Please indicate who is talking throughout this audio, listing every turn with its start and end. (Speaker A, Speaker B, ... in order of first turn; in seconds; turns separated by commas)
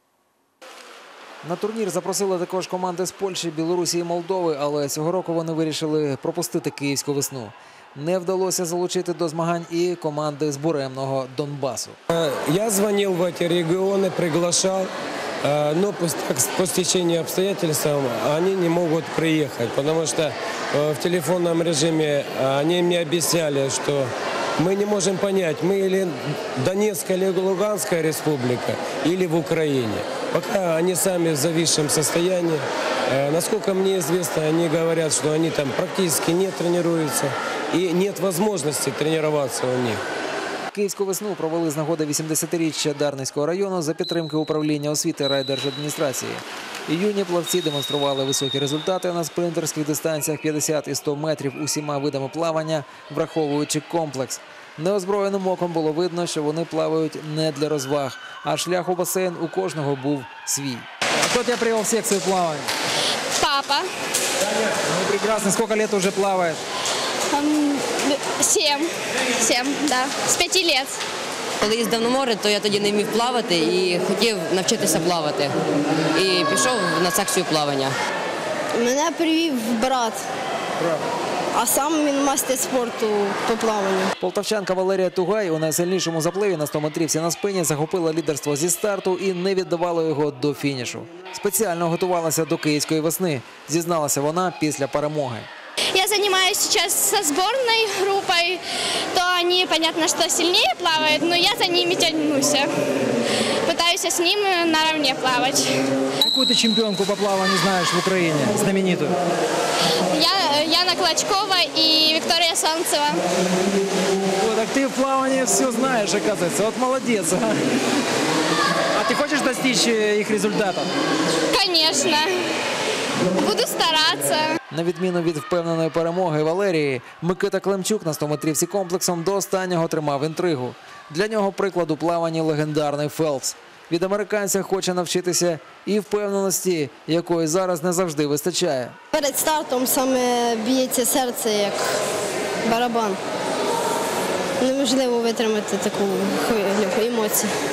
Speaker A: 1.4-12.0, Speaker B: 12.1-14.9, Speaker B: 15.4-40.0, Speaker A: 40.7-62.7, Speaker C: 63.4-63.9, Speaker A: 64.8-66.6, Speaker C: 67.3-71.0, Speaker D: 71.6-75.5, Speaker D: 76.1-77.9, Speaker E: 78.7-80.2, Speaker E: 81.5-84.1, Speaker A: 84.2-95.5, Speaker C: 95.9-98.6, Speaker C: 99.1-102.7, Speaker C: 103.7-105.8, Speaker A: 106.2-109.1, Speaker C: 110.1-113.2, Speaker A: 114.4-117.5, Speaker A: 118.9-120.9, Speaker C: 121.5-122.3, Speaker C: 123.3-124.5, Speaker A: 124.7-139.0, Speaker E: 139.1-142.0, Speaker E: 142.6-143.2, Speaker E: 144.6-147.5